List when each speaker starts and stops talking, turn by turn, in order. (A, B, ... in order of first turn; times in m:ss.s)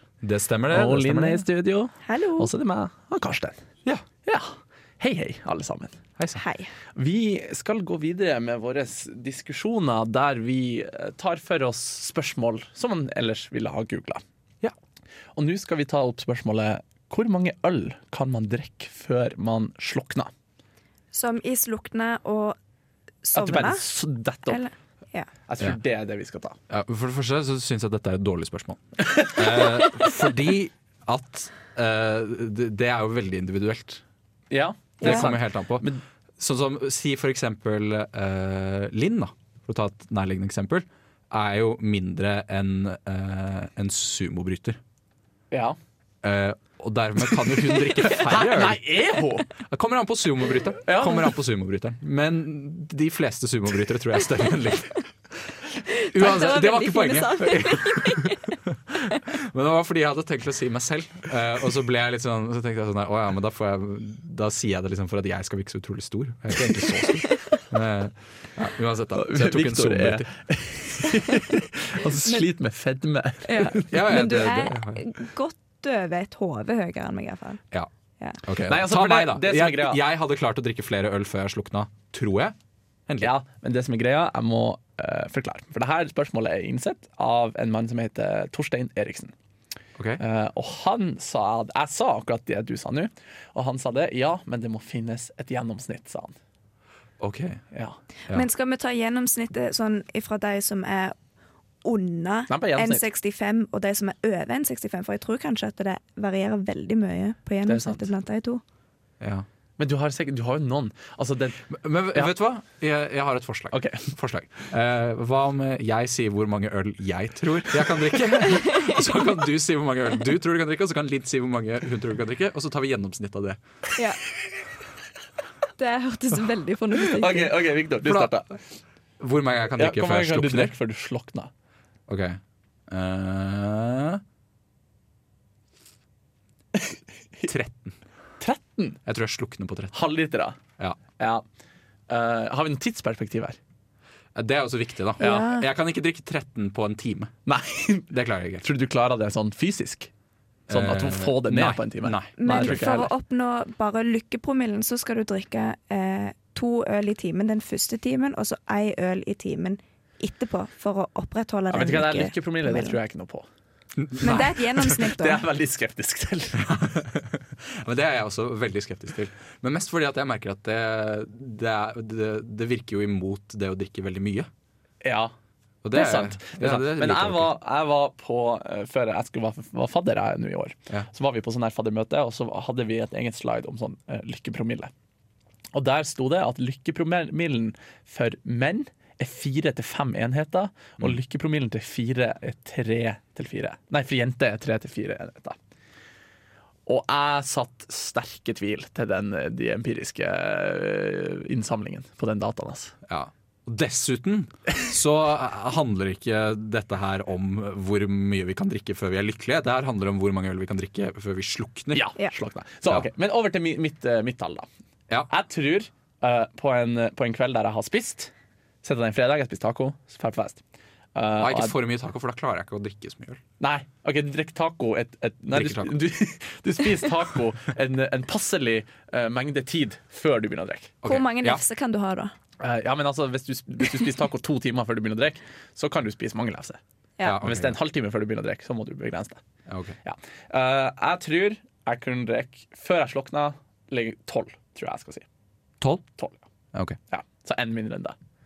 0:00.2-0:01.4 A
0:00.7-0:03.6 B
0:02.0-0:02.5 C
0:04.2-0:06.0 B
0:06.4-0:06.7 C
0:07.0-0:14.2 B
0:15.4-0:20.3 B
0:21.1-0:22.6 C
0:23.2-0:23.8 C
0:23.4-0:24.6 B
0:24.5-0:25.3 C
0:25.5-0:26.6 B
0:26.7-0:34.0 A
0:29.1-0:29.4 B
0:34.5-0:36.0 B
0:35.0-0:35.3 C
0:35.0-0:35.9 A
0:36.4-0:44.8 A
0:45.5-0:45.8 B
0:46.2-0:48.8 A
0:48.0-0:49.5 B
0:49.5-0:55.1 A
0:50.9-0:51.4 B
0:55.9-0:58.5 C
0:56.1-1:10.3 A
1:07.2-1:07.6 C
1:09.1-1:13.9 B
1:13.4-1:17.6 C
1:13.9-1:15.0 A
1:18.4-1:22.6 A
1:18.7-1:20.0 B
1:23.2-1:29.3 B
1:30.2-1:36.4 B
1:37.2-1:37.6 A
1:37.7-1:38.0 B
1:38.3-1:41.2 C
1:41.8-1:48.6 C
1:42.5-1:43.0 B
1:47.7-1:48.1 B
1:49.2-1:49.5 A
1:49.8-1:52.3 B
1:51.7-2:03.6 A
1:53.7-1:54.1 B
1:58.5-1:59.0 C
2:05.8-2:07.5 C
2:07.1-2:08.6 B
2:08.0-2:08.3 A
2:09.2-2:10.7 A
2:09.8-2:11.5 B
2:12.1-2:14.2 A
2:16.8-2:17.5 B
2:17.5-2:18.0 A
2:18.4-2:19.0 B
2:19.1-2:20.0 A
2:19.9-2:20.6 B
2:21.2-2:21.4 B
2:22.1-2:23.6 B
2:24.4-2:27.3 A
2:25.2-2:25.7 C
2:25.2-2:25.5 B
2:27.5-2:30.1 B
2:28.1-2:28.6 A
2:30.7-2:32.9 A
2:30.7-2:33.1 B
2:32.4-2:43.0 C
2:41.7-2:43.5 B
2:44.0-2:44.8 A
2:44.2-2:45.4 C
2:44.2-2:46.7 B
2:46.6-2:54.5 A
2:55.0-2:55.3 B
2:55.8-2:57.5 A
2:55.9-3:04.9 B
3:05.7-3:15.6 B
3:16.9-3:23.0 B
3:23.1-3:32.1 A
3:31.9-3:34.7 B
3:35.3-3:38.3 B
3:38.8-3:40.6 B
3:41.2-3:41.8 B
3:41.4-3:43.4 A
3:43.6-3:51.0 B
3:45.5-3:46.0 A
3:51.0-3:51.6 A
3:51.0-3:52.3 C
3:52.6-3:56.8 B
3:57.2-3:57.8 A
3:57.4-3:59.4 B
3:59.7-4:00.0 A
4:00.0-4:05.3 B
4:07.1-4:08.2 B